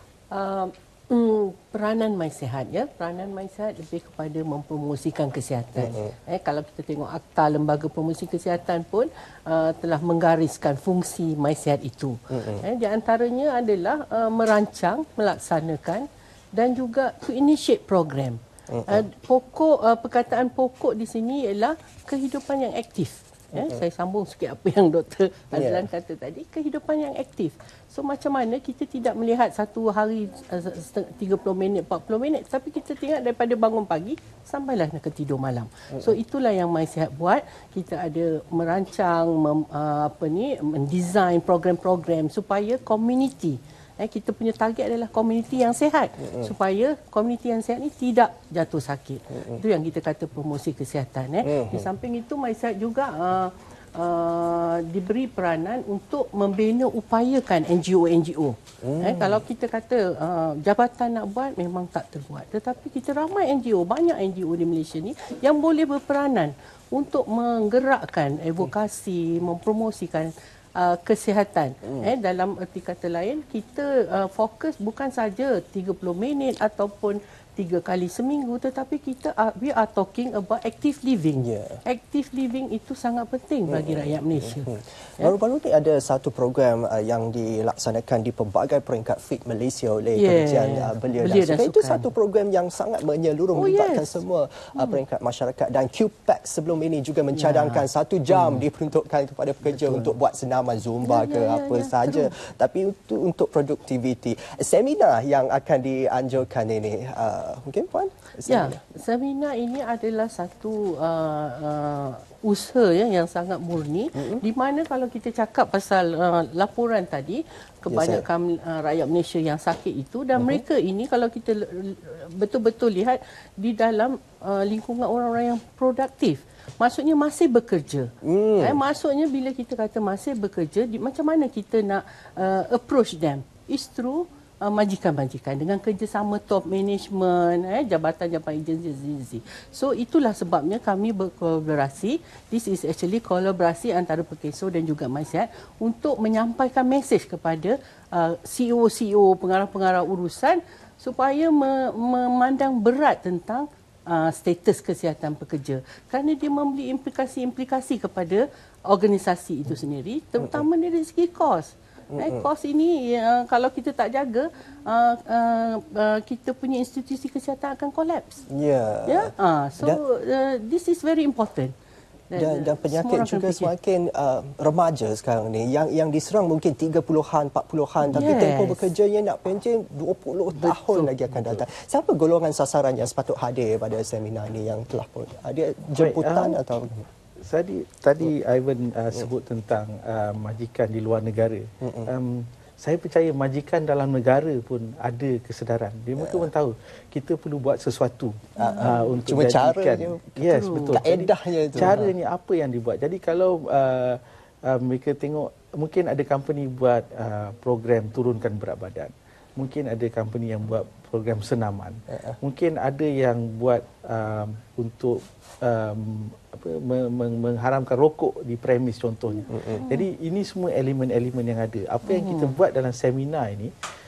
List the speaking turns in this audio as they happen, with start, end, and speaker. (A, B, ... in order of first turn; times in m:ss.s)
0:00.3-1:25.3 A
0:05.8-0:06.0 B
0:12.3-0:12.6 B
0:18.7-0:19.0 B
0:23.5-0:23.8 B
0:25.5-0:25.9 B
0:51.4-0:51.9 B
0:58.8-0:59.4 B
1:11.8-1:12.1 B
1:21.4-1:21.8 B
1:23.7-1:48.8 B
1:30.2-1:32.1 A
1:33.5-1:34.2 A
1:37.3-1:38.6 A
1:39.7-1:40.1 A
1:41.0-1:42.4 A
1:48.5-2:48.4 A
1:54.2-1:54.4 B
1:57.9-1:58.3 B
2:00.4-2:00.6 B
2:08.2-2:08.8 B
2:40.4-2:40.6 B
2:42.1-2:42.5 B
2:48.5-2:50.0 B
2:49.1-2:51.7 A
2:52.3-2:53.7 A
2:52.4-3:07.1 B
2:58.0-2:58.9 A
3:00.6-3:01.1 A
3:06.0-3:06.6 C
3:07.4-3:43.7 C
3:11.8-3:12.1 B
3:16.2-3:16.5 B
3:18.6-3:22.1 B
3:18.6-3:19.2 A
3:20.4-3:21.0 A
3:39.6-3:40.0 A
3:42.1-3:42.6 A